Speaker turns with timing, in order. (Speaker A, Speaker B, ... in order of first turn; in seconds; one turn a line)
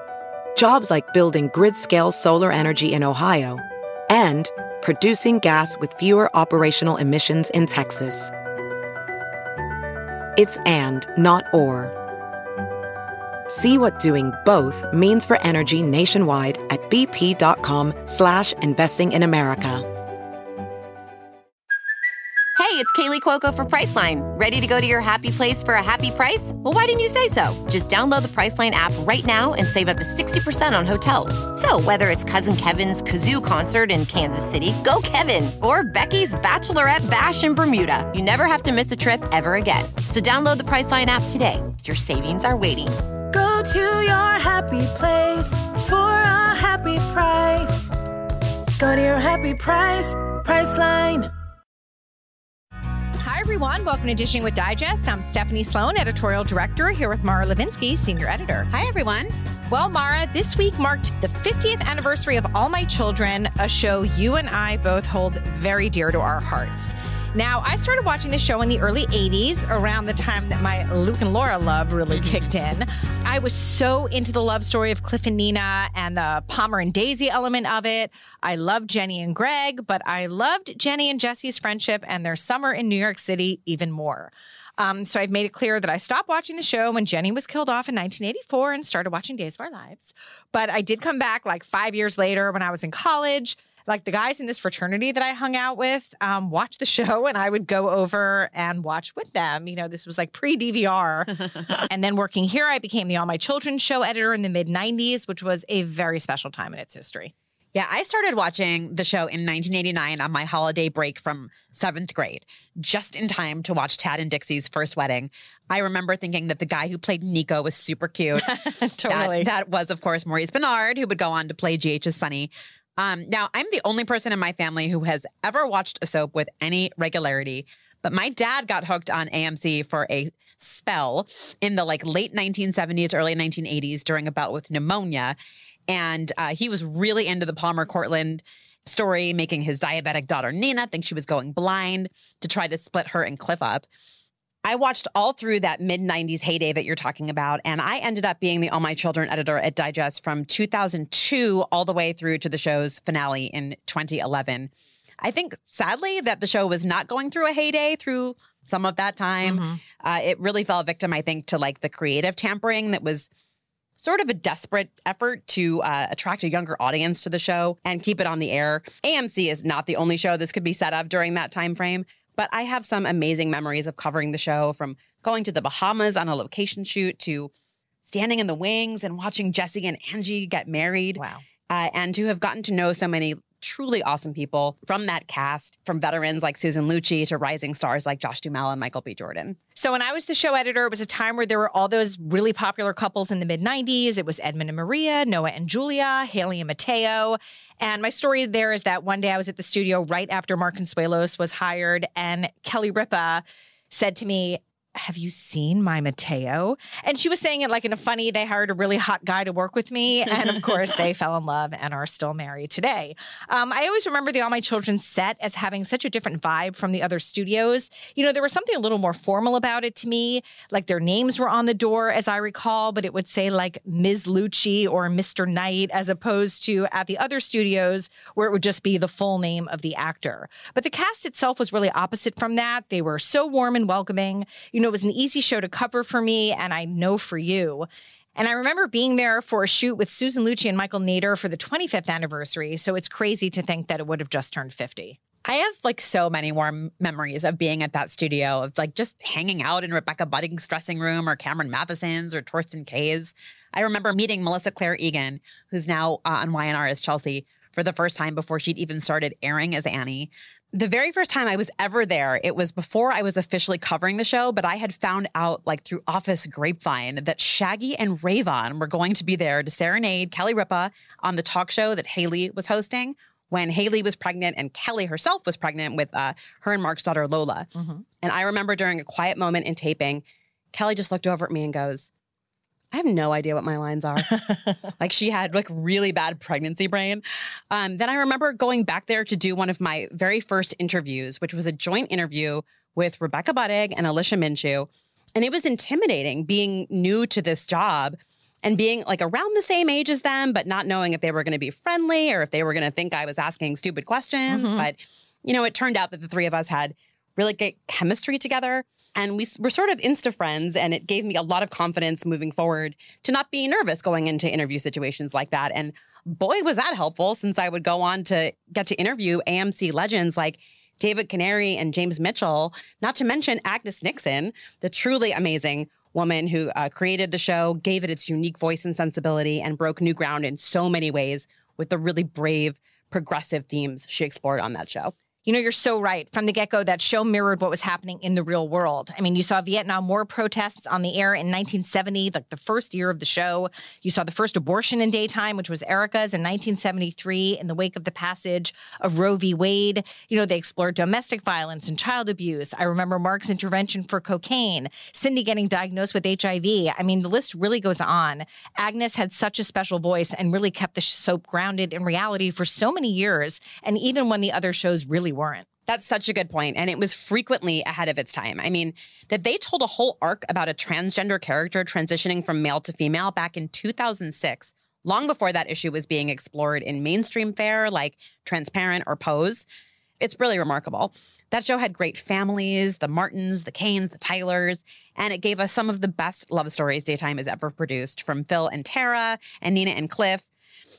Speaker A: 0.6-8.3
Speaker A: 10.3-11.9
Speaker A: 13.5-19.9
Speaker B: 22.6-43.0
Speaker C: 43.3-47.9
Speaker C: 48.8-51.3
Speaker D: 53.2-58.7
Speaker E: 58.7-59.3
Speaker D: 59.7-107.3
Speaker E: 72.2-72.4
Speaker E: 107.7-135.3
Speaker D: 118.4-119.5
Speaker E: 135.9-143.9
Speaker E: 144.6-154.7
Speaker E: 155.2-163.3
Speaker D: 159.4-159.8
Speaker E: 164.0-177.5
Speaker E: 178.0-189.6
Speaker D: 181.2-181.4
Speaker D: 189.8-245.2
Speaker E: 245.4-277.7
Speaker E: 278.2-282.1
Speaker E: 282.9-335.1
Speaker D: 304.5-304.8
Speaker D: 335.4-365.7
Speaker E: 365.9-379.6
Speaker E: 380.2-390.5